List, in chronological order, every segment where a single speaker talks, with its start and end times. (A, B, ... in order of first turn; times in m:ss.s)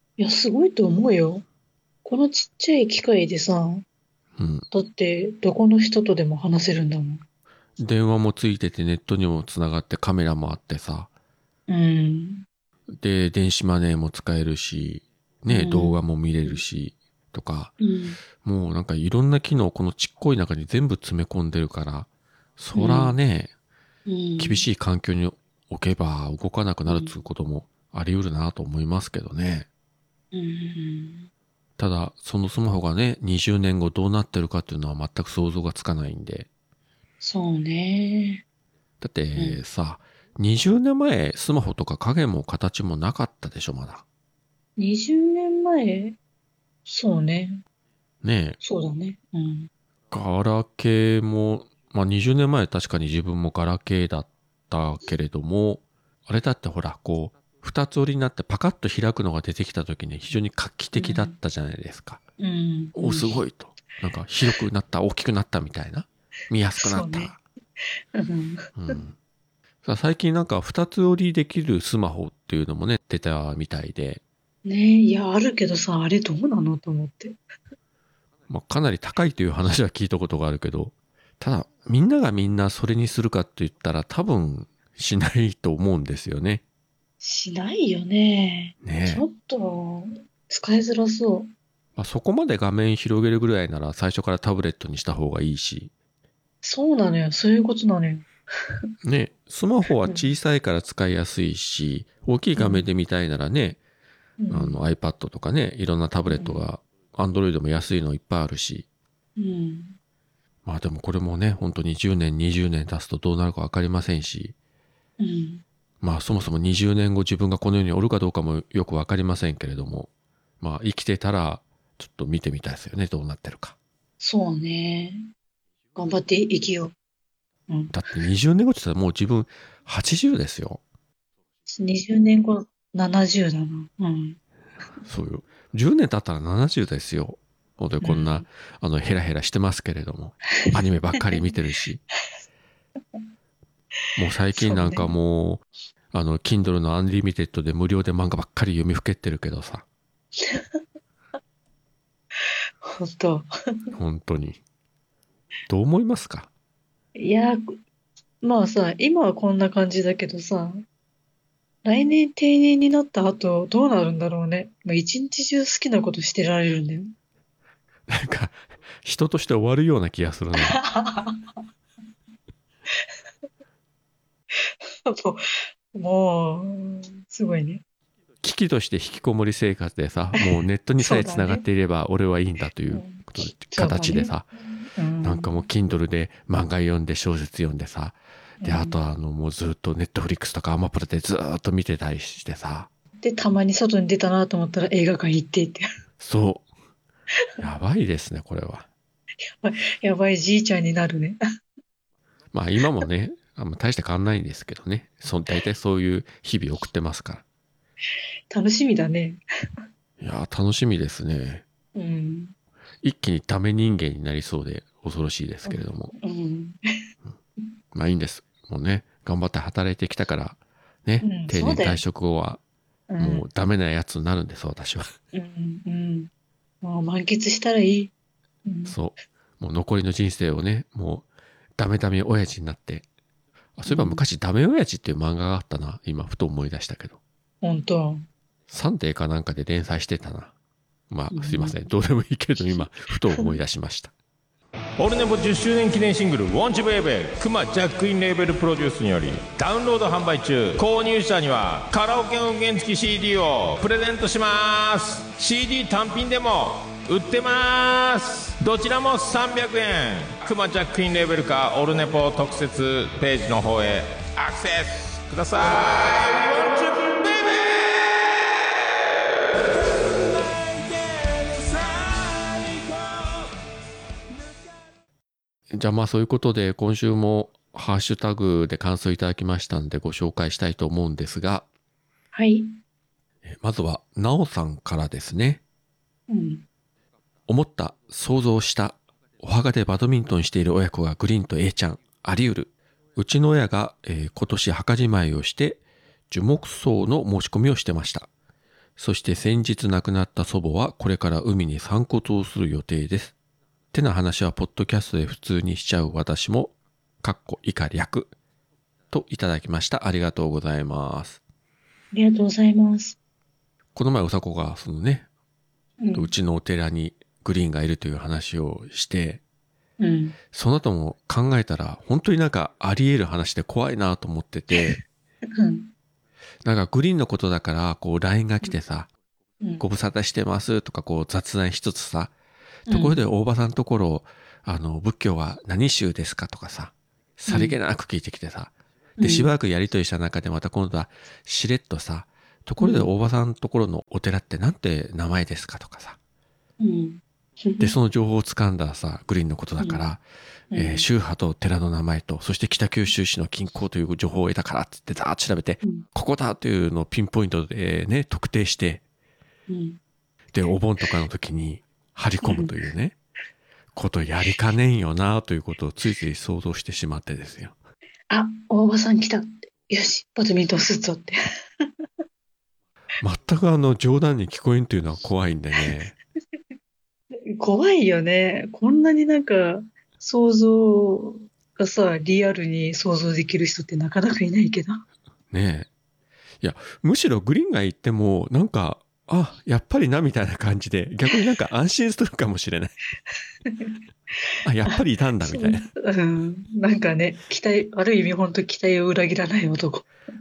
0:00.2-0:01.4 A
0:02.0-0:03.8 A
0:04.4-0:04.6 B
0:04.7-0:07.2 A
0:07.8-0:11.1 B
0:11.7-0:12.4 A
0:12.9-0:17.7 B
0:15.5-0:16.6 A
0:17.8-0:18.2 A
0:18.3-0:23.5 B
0:22.7-0:23.2 A
0:24.1-0:24.6 A
0:24.4-0:29.7 B
0:26.9-0:27.2 A
0:30.3-0:31.3 A
0:31.8-0:36.5 B
0:37.2-0:38.4 A
0:39.0-0:44.0 B
0:44.8-0:46.2 A
0:46.8-0:47.6 A
0:48.2-0:48.6 B
0:48.6-0:49.7 A
0:50.1-1:02.2 B
1:01.0-1:01.4 A
1:02.4-1:03.4 A
1:03.0-1:07.4 B
1:06.8-1:07.4 A
1:08.1-1:09.0 A
1:08.8-1:09.1 B
1:09.8-1:14.2 B
1:14.6-1:17.4 A
1:18.5-1:26.6 B
1:27.2-1:31.5 A
1:28.8-1:29.2 B
1:32.0-1:35.9 B
1:36.6-1:38.3 A
1:39.0-1:43.8 B
1:40.0-1:40.3 A
1:42.6-1:42.8 A
1:44.4-1:44.8 A
1:44.5-1:48.8 B
1:46.3-1:46.6 A
1:49.4-1:50.0 A
1:50.6-1:54.5 B
1:55.2-1:55.6 A
1:56.0-2:00.1 B
2:00.6-2:03.7 B
2:04.2-2:05.3 A
2:06.0-2:06.9 A
2:07.7-2:08.0 A
2:07.9-2:10.8 B
2:11.7-2:14.4 A
2:15.0-2:22.0 B
2:18.0-2:18.4 A
2:24.2-2:29.8 B
2:24.5-2:25.1 A
2:32.8-2:33.5 A
2:33.9-2:34.6 B
2:35.7-2:36.5 B
2:37.2-2:37.8 A
2:38.4-2:40.8 A
2:41.8-2:47.1 A
2:48.1-2:50.8 B
2:50.6-2:51.4 A
2:54.5-2:57.8 A
2:58.4-3:04.5 B
3:01.0-3:01.6 A
3:02.9-3:05.5 A
3:05.2-3:12.9 B
3:08.6-3:09.0 A
3:13.2-3:15.8 A
3:16.2-3:16.6 B
3:17.6-3:18.9 B
3:19.5-3:21.4 A
3:22.5-3:27.4 B
3:28.5-3:29.4 A
3:30.2-3:31.6 B
3:31.9-3:32.5 A
3:33.0-3:36.1 B
3:35.6-3:36.8 A
3:37.9-3:42.6 B
3:41.2-3:42.0 A
3:43.1-3:43.4 A
3:43.2-3:45.1 B
3:45.3-3:46.3 A
3:46.8-3:48.1 A
3:48.6-3:49.0 A
3:48.9-3:51.2 B
3:51.8-3:53.0 B
3:53.8-3:57.2 B
3:53.9-3:54.2 A
3:57.6-3:58.2 A
3:58.7-4:00.5 B
4:01.1-4:04.1 B
4:01.3-4:01.8 A
4:05.0-4:28.4 C
4:29.7-4:33.5 C
4:34.4-4:34.6 C
4:35.7-4:41.6 B
4:42.3-4:42.7 A
4:43.4-4:45.6 B
4:46.3-4:46.6 A
4:47.5-4:58.3 B
4:59.0-5:03.3 B
5:03.9-5:08.3 B
5:09.1-5:11.4 B
5:12.1-5:13.2 A
5:13.9-5:15.2 B
5:16.0-5:16.3 A
5:16.1-5:19.4 B
5:20.0-5:20.4 A
5:20.5-5:25.0 B
5:24.7-5:25.0 A
5:25.6-5:25.9 A
5:26.6-5:29.1 B
5:29.8-5:32.3 B
5:32.9-5:33.2 A
5:32.9-5:46.2 B
5:37.5-5:37.8 A
5:39.2-5:39.5 A
5:42.8-5:43.1 A
5:46.8-5:47.9 A
5:47.8-5:50.2 B
5:50.7-5:51.1 A
5:50.7-5:59.0 B
5:59.7-6:00.0 A
6:00.5-6:03.1 B
6:02.4-6:02.7 A
6:03.9-6:07.8 B
6:08.3-6:11.3 A
6:13.2-6:16.1 B
6:17.5-6:25.0 A
6:25.5-6:25.9 B
6:26.6-6:32.9 B
6:33.7-6:34.0 A
6:34.6-6:35.9 B
6:34.9-6:40.0 A